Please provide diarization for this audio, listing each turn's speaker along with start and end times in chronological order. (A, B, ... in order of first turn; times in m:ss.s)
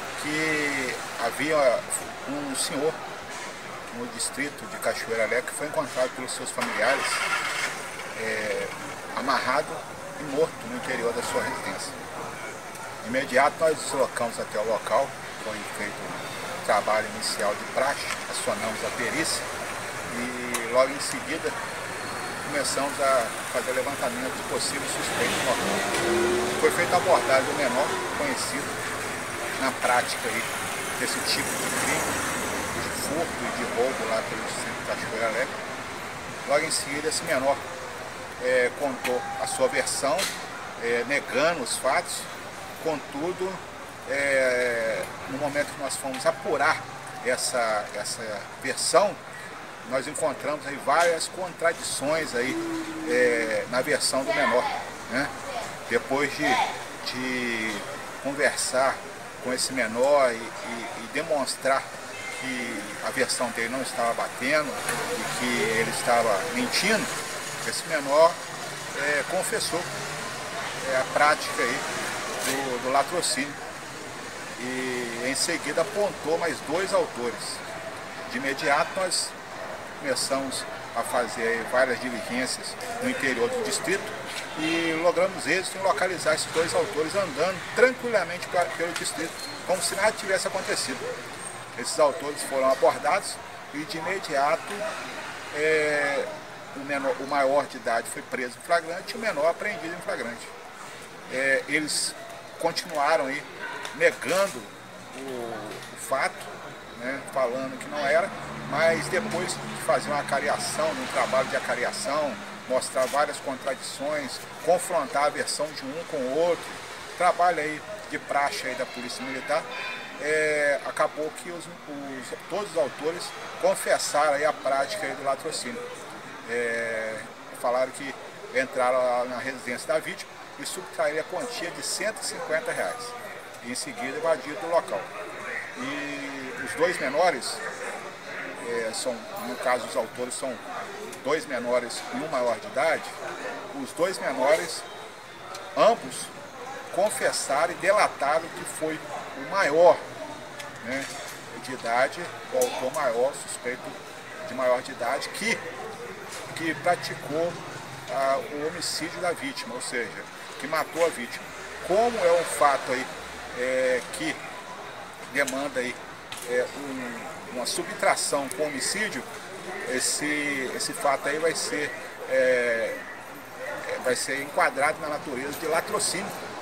0:00.2-0:03.0 A
0:03.9-0:07.2 A
0:08.1-0:12.0 A
0:13.0-0:19.5 A
0:20.1-0:21.6 A
0:22.4-0:25.9 A
0:26.6-0:28.8 A
0:29.6-0:32.2 A
0:32.7-0:35.5 A
0:36.4-0:37.6 A
0:38.4-0:49.2 A
0:49.8-0:55.3 A
0:55.9-1:08.4 A
1:08.9-1:09.9 A
1:10.8-1:13.6 A
1:14.6-1:17.6 A
1:18.2-1:19.4 A
1:20.0-1:31.0 A
1:31.8-1:34.9 A
1:35.5-1:40.5 A
1:41.3-2:05.8 A
2:06.4-2:15.1 A
2:15.8-2:17.6 A
2:18.6-2:20.6 A
2:21.2-2:23.2 A
2:23.7-2:24.8 A
2:25.8-2:26.3 A
2:26.9-2:30.0 A
2:30.8-2:35.6 A
2:36.5-2:44.4 A
2:45.3-2:49.3 A
2:49.8-2:53.0 A
2:53.8-2:56.3 A